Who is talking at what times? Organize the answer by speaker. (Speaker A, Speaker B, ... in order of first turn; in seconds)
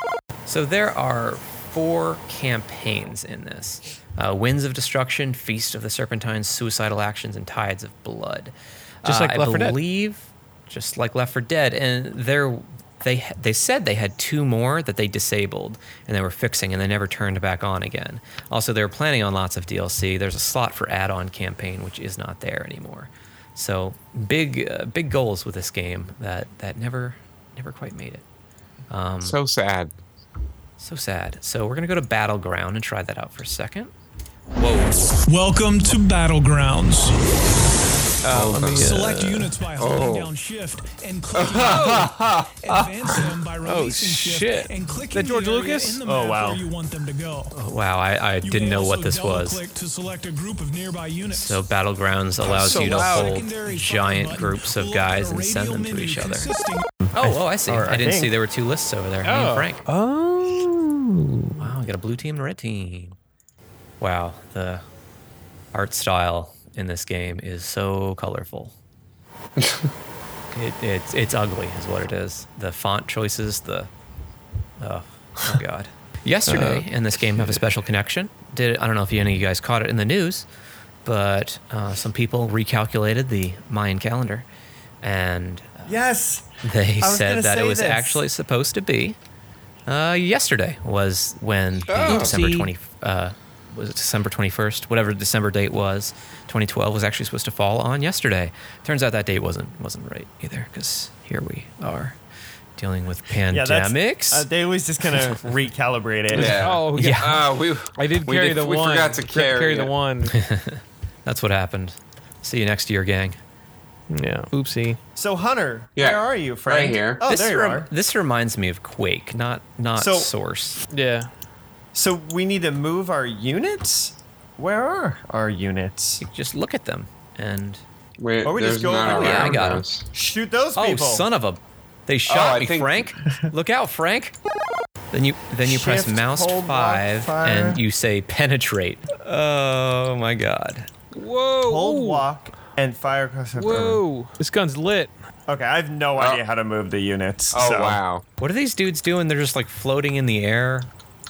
Speaker A: 0.5-28.2, 28.9-29.4, 30.8-33.9, 34.6-35.2, 38.3-39.5, 43.8-44.6, 47.5-49.6, 51.3-56.5, 57.1-59.9, 61.6-63.2, 64.0-64.8, 65.7-68.7, 70.5-73.9, 74.8-80.5, 81.0-84.5, 85.0-86.0, 86.6-89.2, 89.9-102.2, 102.8-104.5, 105.1-105.4, 107.0-107.4, 110.3-113.4, 117.3-120.8, 126.2-127.8, 129.0-129.8, 130.8-134.3, 135.1-140.9, 148.4-150.9
Speaker B: 9.1-9.8, 38.3-39.2, 41.6-42.1, 43.7-46.0, 52.5-53.4, 59.2-61.7, 76.5-77.6, 92.1-92.7, 106.3-107.4, 108.0-110.3, 114.1-115.0, 120.9-121.3, 141.1-142.2, 143.6-145.1
Speaker C: 29.2-29.9, 38.2-38.8, 39.8-40.3, 41.3-43.3, 69.6-69.9, 91.9-92.4, 106.3-109.9, 116.0-117.2, 128.2-130.1, 132.3-133.1, 146.2-146.4, 147.5-148.2
Speaker D: 35.2-37.2, 38.5-47.5, 48.4-51.6, 52.4-56.9
Speaker E: 46.0-46.6, 57.0-58.3, 85.9-86.5, 87.0-88.2, 103.5-106.6, 115.2-117.9, 120.0-120.3, 121.9-126.2, 128.4-131.2, 135.7-137.8, 141.7-144.0, 145.5-148.0